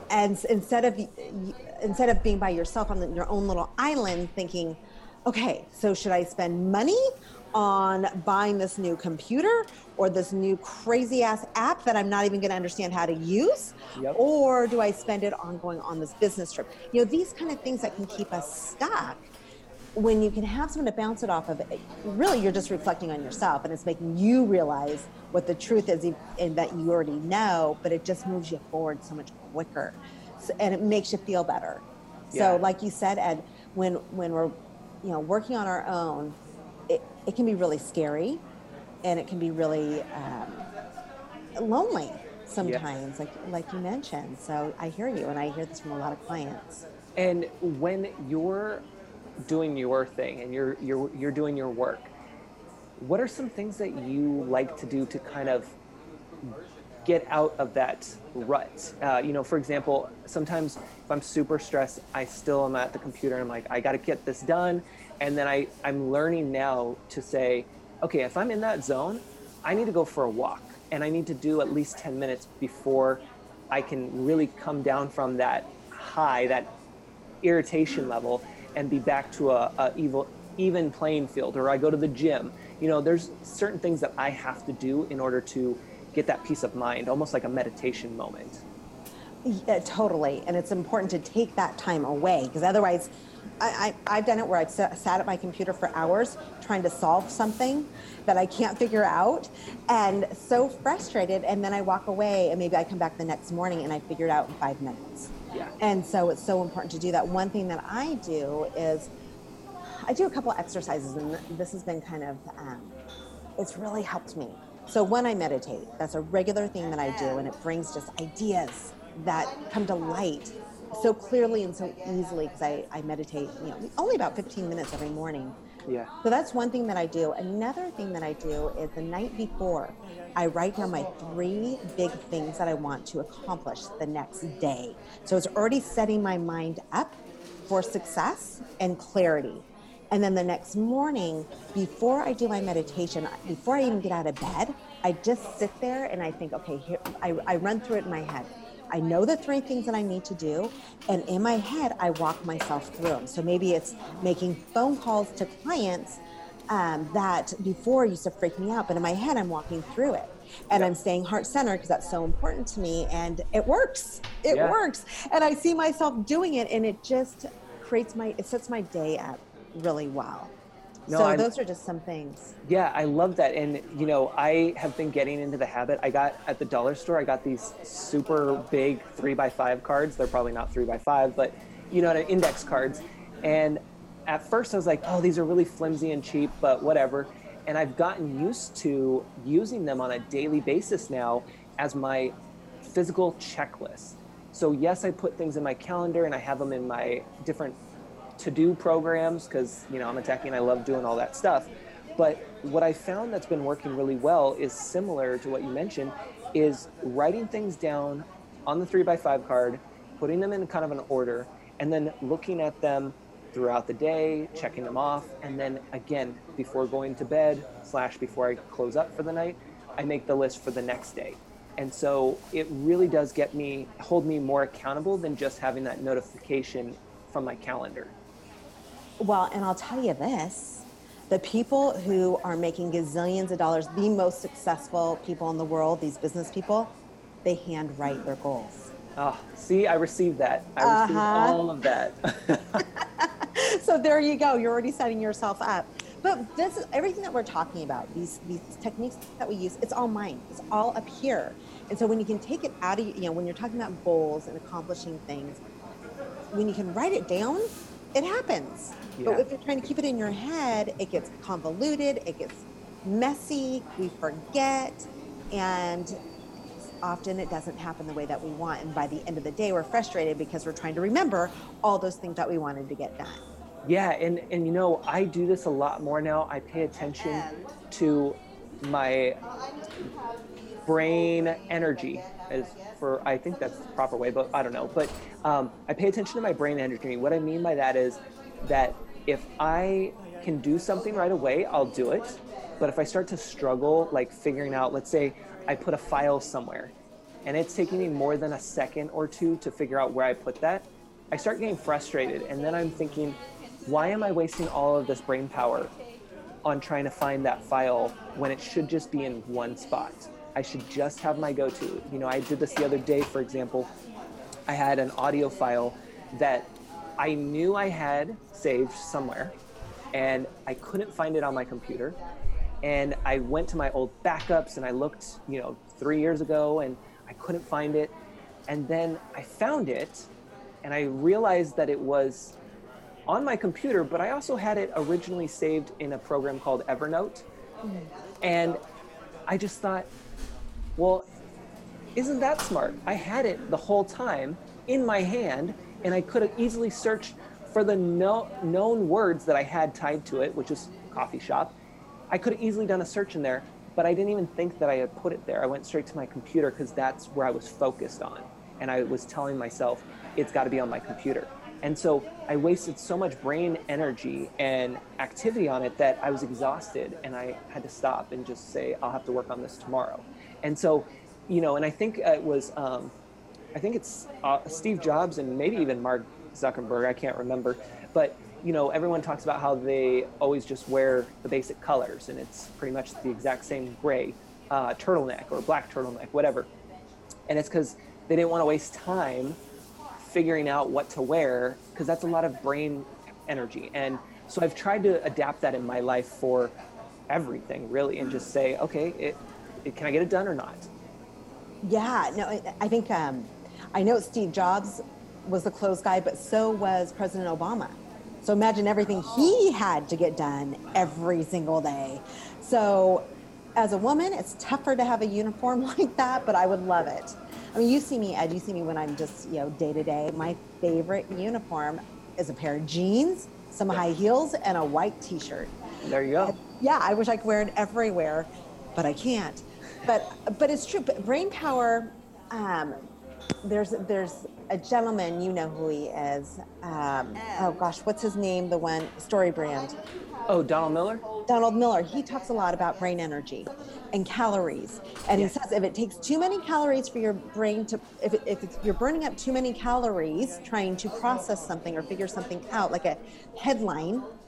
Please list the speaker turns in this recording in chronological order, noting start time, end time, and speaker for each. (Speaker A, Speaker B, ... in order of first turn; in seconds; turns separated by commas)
Speaker A: 0.1-19.3, Speaker A: 19.9-36.4, Speaker B: 32.3-32.6, Speaker A: 36.9-38.4, Speaker A: 39.0-40.7, Speaker A: 41.5-46.8, Speaker B: 47.1-48.8, Speaker B: 49.4-52.1, Speaker B: 53.0-55.7, Speaker B: 56.4-76.7, Speaker B: 77.4-88.6, Speaker A: 89.4-109.1, Speaker A: 110.0-113.0, Speaker A: 113.6-125.6, Speaker A: 126.2-137.2, Speaker A: 137.7-170.5, Speaker B: 164.5-164.8, Speaker B: 171.1-171.5, Speaker A: 171.1-172.5, Speaker B: 172.6-197.8, Speaker B: 198.4-228.1, Speaker A: 229.2-238.9, Speaker B: 239.2-242.8, Speaker A: 240.8-241.6, Speaker A: 242.8-255.6, Speaker A: 256.5-266.1, Speaker B: 259.1-259.4, Speaker A: 267.0-273.4, Speaker B: 273.8-279.4, Speaker B: 280.9-296.9, Speaker B: 297.4-305.9, Speaker B: 306.6-313.9, Speaker B: 314.7-319.5, Speaker B: 320.1-322.2, Speaker B: 322.8-328.1, Speaker B: 328.7-330.3, Speaker B: 330.8-332.6, Speaker B: 333.3-337.4, Speaker A: 337.8-338.1, Speaker B: 338.4-338.8, Speaker B: 339.5-340.1, Speaker B: 341.0-341.2, Speaker B: 342.1-351.7, Speaker B: 352.3-373.1, Speaker B: 373.7-386.7, Speaker B: 387.5-389.6, Speaker B: 390.2-396.8, Speaker B: 397.3-400.9, Speaker A: 401.8-425.7, Speaker B: 426.0-426.6, Speaker A: 426.4-433.0, Speaker A: 433.6-440.0, Speaker B: 440.5-441.2, Speaker A: 441.5-454.3